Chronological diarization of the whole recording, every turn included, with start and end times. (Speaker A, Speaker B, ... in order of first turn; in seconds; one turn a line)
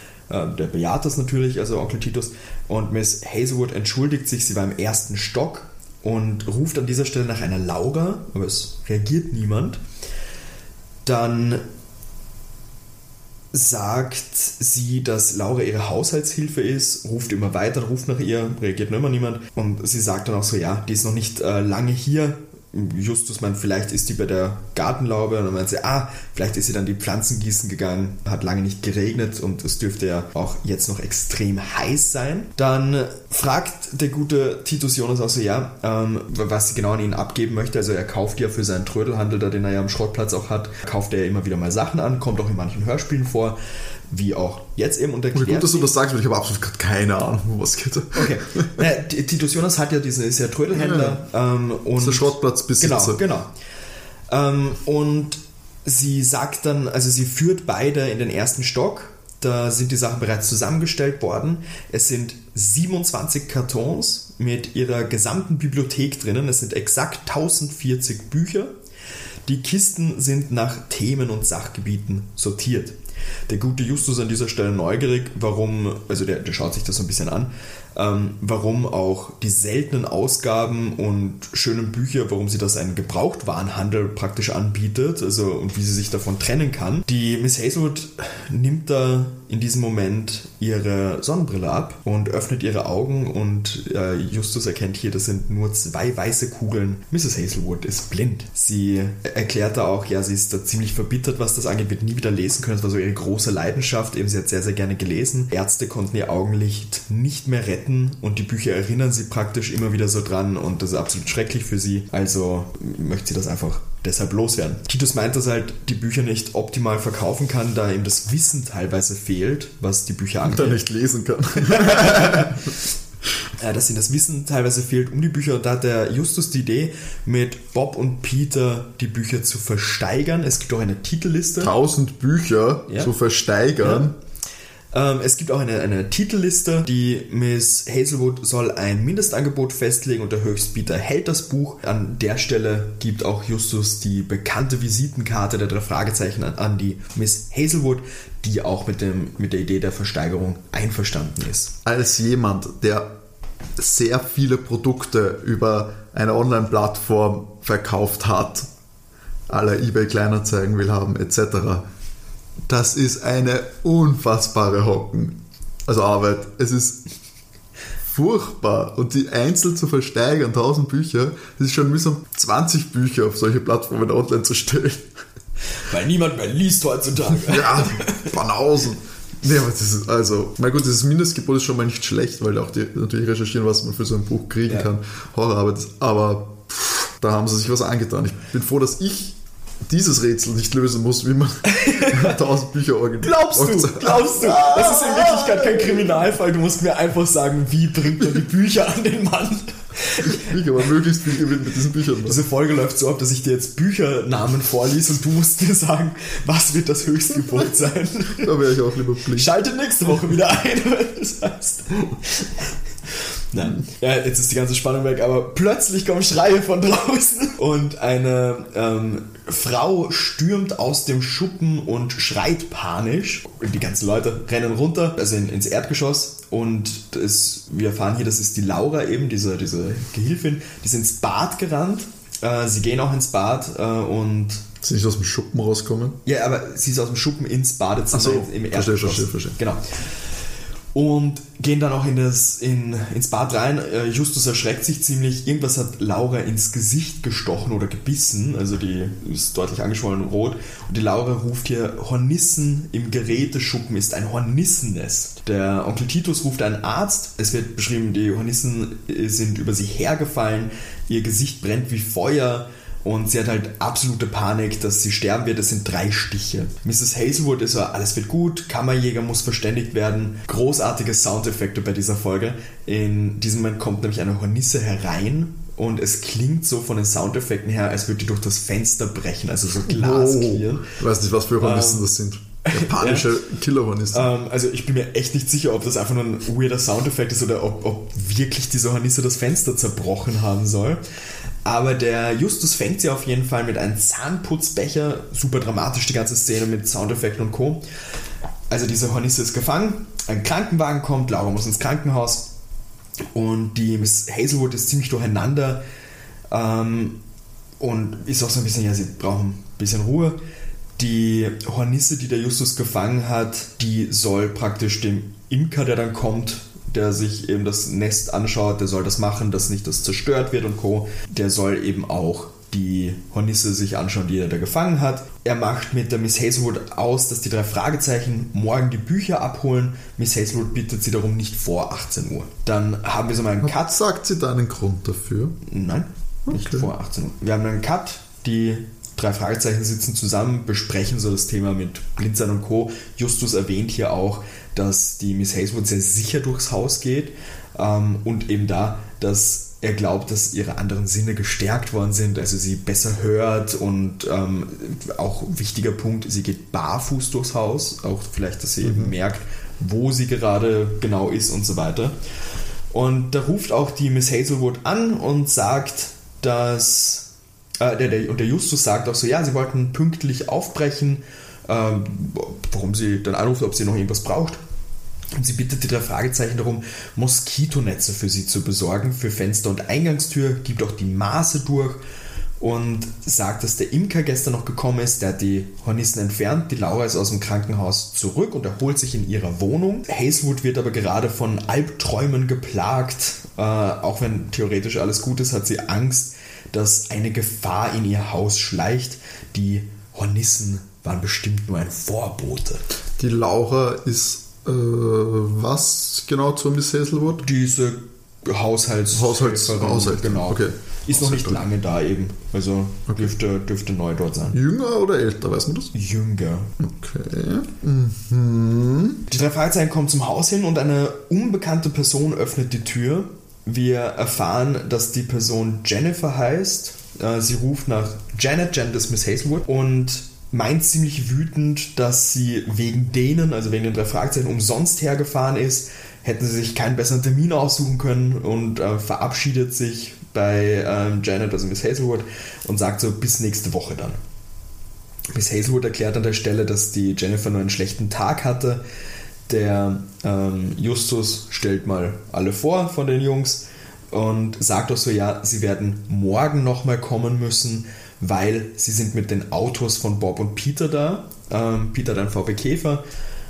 Speaker A: 0.3-9.8
Speaker A: 11.1-11.6
Speaker A: 13.5-43.6
Speaker A: 44.1-45.9
Speaker B: 45.3-48.8
Speaker A: 48.1-53.5
Speaker B: 50.7-51.2
Speaker B: 52.0-53.2
Speaker A: 54.3-68.7
Speaker A: 69.5-73.0
Speaker A: 73.5-120.8
Speaker B: 120.4-122.8
Speaker A: 121.6-122.7
Speaker A: 123.5-131.7
Speaker B: 131.6-134.2
Speaker A: 133.8-134.1
Speaker A: 134.9-151.7
Speaker B: 151.8-153.1
Speaker B: 153.8-158.7
Speaker B: 159.5-161.8
Speaker B: 162.7-167.0
Speaker B: 168.0-175.1
Speaker A: 175.8-178.3
Speaker B: 177.3-196.3
Speaker A: 191.7-192.4
Speaker A: 193.2-200.6
Speaker B: 200.2-202.4
Speaker A: 202.2-208.5
Speaker B: 208.4-209.5
Speaker A: 209.3-234.6
Speaker B: 234.8-236.2
Speaker A: 236.2-239.8
Speaker B: 238.1-239.6
Speaker A: 240.9-280.9
Speaker B: 279.8-284.3
Speaker A: 281.6-282.1
Speaker A: 282.6-283.3
Speaker A: 284.1-291.0
Speaker A: 291.6-297.8
Speaker A: 298.7-302.5
Speaker A: 303.3-305.8
Speaker A: 306.5-307.2
Speaker A: 307.8-310.4
Speaker A: 311.0-333.9
Speaker B: 333.6-335.6
Speaker A: 335.6-362.1
Speaker B: 336.5-336.9
Speaker B: 358.8-359.1
Speaker A: 362.9-367.3
Speaker A: 367.8-374.6
Speaker A: 375.4-382.0
Speaker A: 382.6-402.8
Speaker B: 403.2-407.4
Speaker A: 407.4-414.6
Speaker B: 409.1-411.6
Speaker B: 413.1-413.3
Speaker B: 414.5-415.9
Speaker A: 415.9-416.7
Speaker B: 416.8-419.2
Speaker A: 419.3-444.2
Speaker A: 445.3-448.8
Speaker A: 449.5-463.0